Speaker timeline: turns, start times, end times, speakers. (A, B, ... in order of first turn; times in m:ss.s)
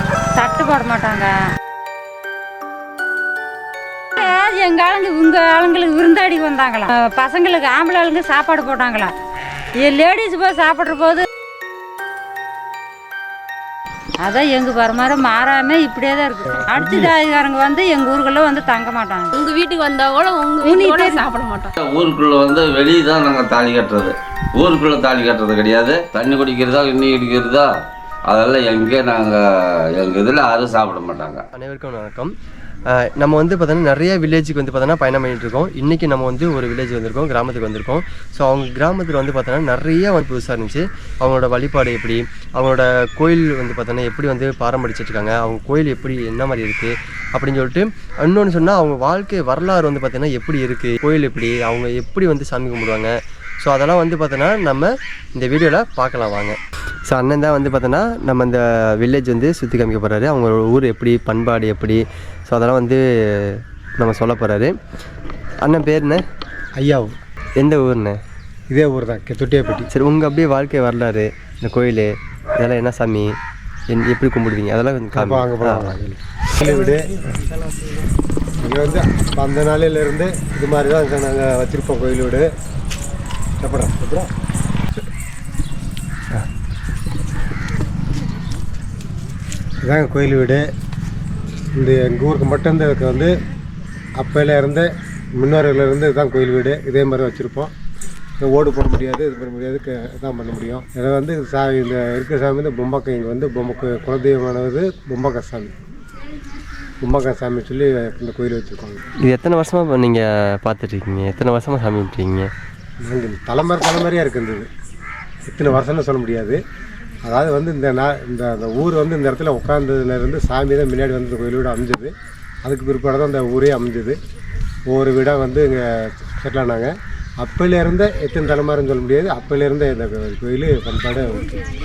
0:00.3-0:01.3 A
0:04.2-0:09.1 A
0:09.8-0:11.2 A
0:14.2-0:19.3 A
0:16.7-0:17.1 B
0:19.4-0:21.7 C
0:20.6-0:21.2 A
0:21.8-0:27.7 D
0:28.3-0:31.4 D
0:31.5-0:32.3 E
0:32.9-1:04.8 E
1:05.6-1:06.2 E
1:06.8-1:07.1 B
1:07.6-1:08.2 E
1:08.7-1:09.9 B
1:09.9-1:13.4 E
1:13.9-1:16.0 E
1:15.1-1:17.2 B
1:18.6-1:22.5 B
1:23.6-1:24.3 B
1:29.8-1:30.7 B
1:31.7-1:33.3 B
1:34.2-1:37.7 B
1:38.4-1:45.7 B
1:47.0-1:49.0 B
1:49.2-1:52.5 E
1:53.0-1:54.7 B
1:55.4-1:56.6 B
1:57.2-2:04.2 B
2:04.9-2:11.6 B